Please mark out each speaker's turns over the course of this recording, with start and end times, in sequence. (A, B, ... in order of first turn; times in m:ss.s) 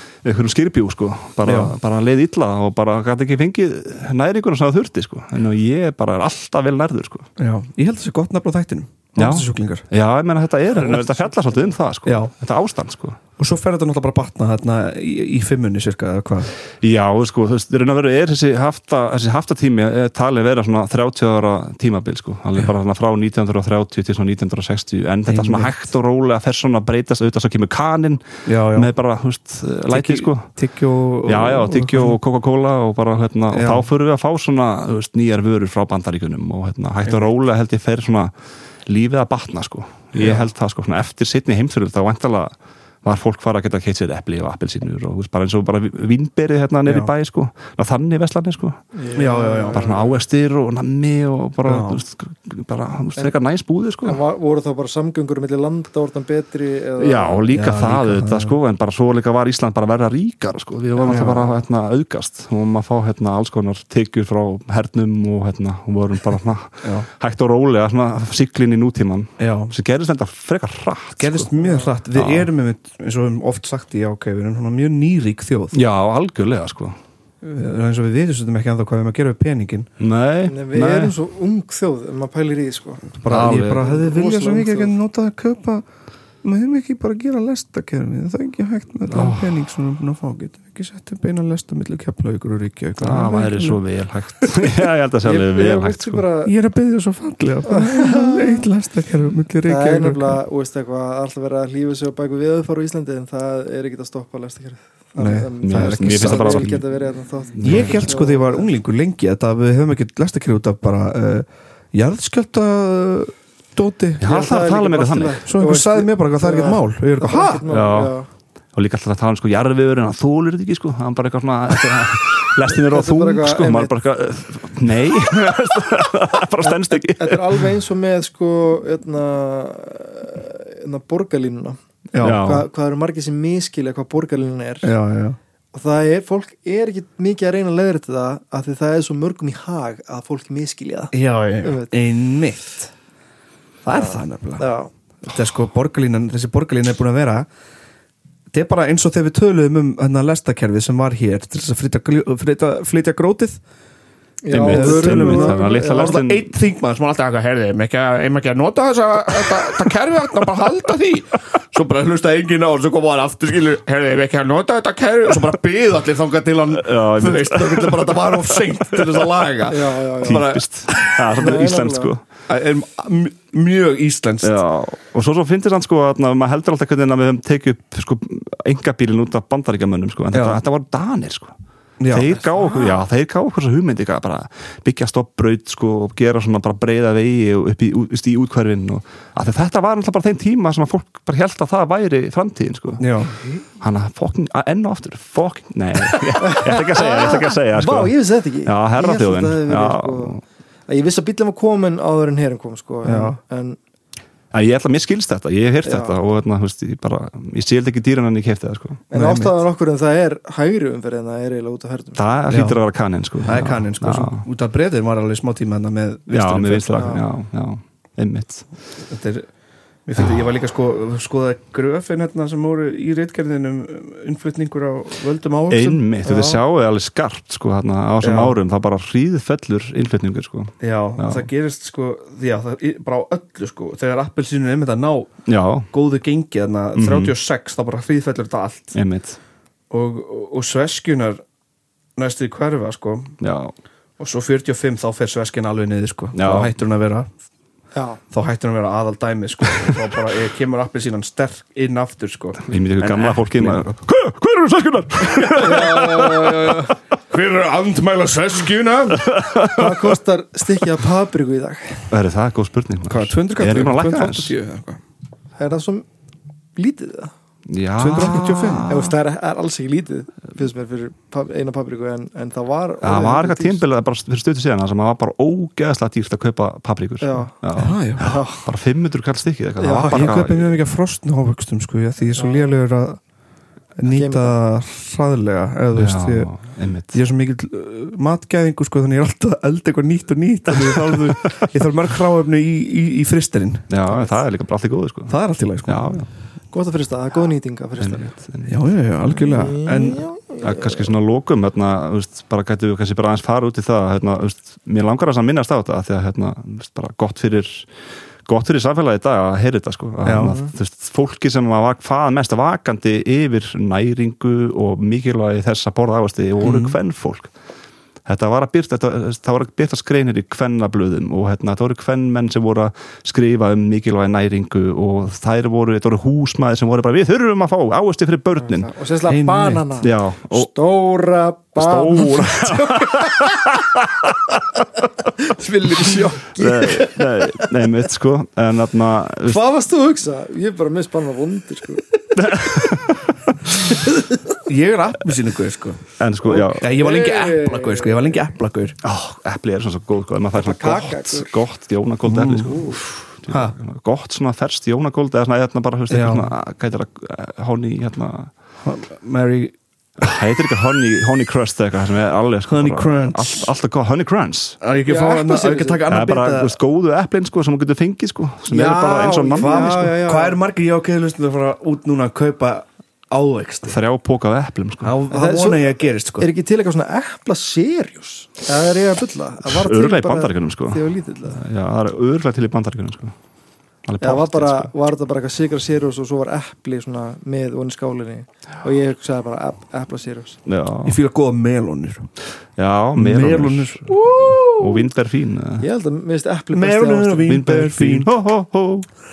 0:00.2-0:07.3 A
0:01.4-0:01.7 B
0:07.4-0:09.9 B
0:09.2-0:13.2 A
0:10.8-0:11.2 B
0:12.0-0:12.3 B
0:13.4-0:16.5 B
0:16.8-0:30.5 A
0:25.3-0:25.8 B
0:28.4-0:28.9 B
0:29.9-0:32.2 B
0:31.2-0:38.3 A
0:33.5-0:33.8 B
0:38.8-0:42.5 A
0:40.1-0:40.5 B
0:43.0-0:48.8 A
0:46.8-0:47.1 B
0:48.9-0:50.2 C
0:49.1-0:49.8 B
0:49.6-0:54.2 A
0:51.6-0:52.0 B
0:54.0-0:57.4 C
0:57.0-1:11.5 A
0:57.5-0:58.6 B
1:01.0-1:01.5 B
1:06.8-1:07.1 B
1:09.4-1:09.7 B
1:11.2-1:15.8 B
1:11.6-1:11.9 C
1:12.1-1:12.5 A
1:15.7-1:17.0 A
1:17.4-1:19.9 B
1:20.0-1:21.1 A
1:20.5-1:23.1 C
1:23.2-1:25.8 B
1:23.3-1:23.9 A
1:23.8-1:24.9 C
1:26.4-1:33.8 B
1:29.1-1:29.7 A
1:33.0-1:36.2 A
1:34.4-1:34.7 B
1:35.2-1:36.5 C
1:36.4-1:40.4 B
1:37.7-1:38.6 C
1:39.6-1:48.7 C
1:45.2-1:46.8 B
1:45.6-1:46.8 A
1:47.5-1:48.1 A
1:47.6-1:54.2 B
1:54.2-1:55.4 A
1:54.2-1:58.3 C
1:55.4-1:57.6 B
1:57.7-1:58.1 A
1:58.7-2:07.6 A
2:02.6-2:04.0 C
2:06.6-2:14.9 C
2:12.1-2:12.4 B
2:12.2-2:12.7 A
2:14.8-2:15.4 B
2:15.7-2:21.9 C
2:21.1-2:22.9 B
2:23.8-2:24.6 B
2:23.9-2:24.9 C
2:25.2-2:27.4 B
2:28.5-2:33.6 B
2:34.4-2:36.2 C
2:34.5-2:36.5 A
2:34.6-2:51.3 B
2:46.7-2:49.2 A
2:49.7-2:50.4 C
2:50.2-2:52.2 A
2:51.4-2:52.1 C
2:52.5-2:54.6 B
2:54.4-3:01.5 A
3:00.3-3:00.6 B
3:02.0-3:03.0 B
3:02.1-3:13.0 A
3:13.0-3:13.4 B
3:13.8-3:20.4 A
3:16.4-3:23.8 C
3:23.0-3:23.4 B
3:24.5-3:29.0 A
3:25.8-3:26.1 C
3:29.1-3:32.2 C
3:29.1-3:29.5 B
3:32.2-3:34.4 A
3:32.5-3:32.8 B
3:33.4-3:37.2 B
3:36.3-3:38.6 A
3:37.0-3:37.2 C
3:39.1-3:39.5 B
3:40.0-3:46.3 B
3:45.7-3:51.5 A
3:46.2-3:46.6 C
3:48.2-3:48.5 B
3:50.8-3:55.3 B
3:55.5-3:55.9 A
3:55.9-3:59.0 B
3:57.0-3:57.3 A
3:58.9-3:59.4 A
3:59.9-4:01.4 B
4:02.2-4:03.4 B
4:03.4-4:03.7 A
4:04.2-4:07.3 B
4:06.3-4:06.7 A
4:07.9-4:08.2 C
4:08.3-4:13.9 B
4:12.6-4:16.7 A
4:15.4-4:19.3 B
4:15.6-4:16.9 C
4:19.1-4:20.2 A
4:19.7-4:22.1 C
4:22.1-4:24.6 A
4:23.1-4:25.0 B
4:25.6-4:26.0 C
4:26.7-4:27.3 C
4:27.7-4:29.1 A
4:28.0-4:28.9 B
4:28.9-4:33.8 C
4:33.0-4:40.7 A
4:37.2-4:37.5 C
4:37.8-4:38.2 B
4:38.2-4:38.7 C
4:39.8-4:40.4 C
4:40.1-4:43.2 B
4:42.4-4:42.7 C
4:44.0-4:53.9 B
4:44.1-4:44.6 C
4:45.9-4:47.1 A
4:50.7-4:51.6 A
4:53.9-4:56.3 A
4:54.1-4:54.4 C
4:55.3-4:56.2 B
4:56.7-4:58.3 C
4:58.0-4:58.8 A
4:58.6-5:00.2 B
4:59.4-5:01.0 C
5:00.6-5:07.9 A
5:08.4-5:17.5 A
5:10.2-5:10.5 B
5:10.4-5:10.7 C
5:16.6-5:16.9 B
5:18.2-5:28.9 A
5:28.6-5:33.8 C
5:29.3-5:29.9 B
5:30.0-5:30.7 A
5:31.8-5:34.4 A
5:35.4-5:37.7 C
5:36.5-5:39.6 A
5:39.4-5:42.0 C
5:42.3-5:43.8 A
5:44.6-5:49.0 B
5:46.2-5:46.9 A
5:46.8-5:48.4 C
5:49.0-5:58.5 A
5:50.5-5:51.5 C
5:52.2-5:52.7 B
5:52.6-5:53.0 C
5:53.5-5:53.7 B
5:56.1-5:56.5 B
5:58.8-5:59.7 B
6:00.2-6:04.8 A
6:02.7-6:03.7 B
6:04.8-6:06.8 B
6:05.0-6:06.0 C
6:06.1-6:10.1 A
6:08.7-6:10.6 C
6:09.1-6:14.0 B
6:13.8-6:15.2 A
6:15.0-6:16.5 B
6:15.3-6:21.6 C
6:19.6-6:23.4 A
6:24.0-6:24.9 A
6:24.2-6:30.6 C
6:30.6-6:31.2 A
6:31.0-6:32.3 B
6:32.8-6:35.8 A
6:33.2-6:35.1 B
6:35.8-6:37.6 C
6:36.7-6:38.3 B
6:37.4-6:39.1 A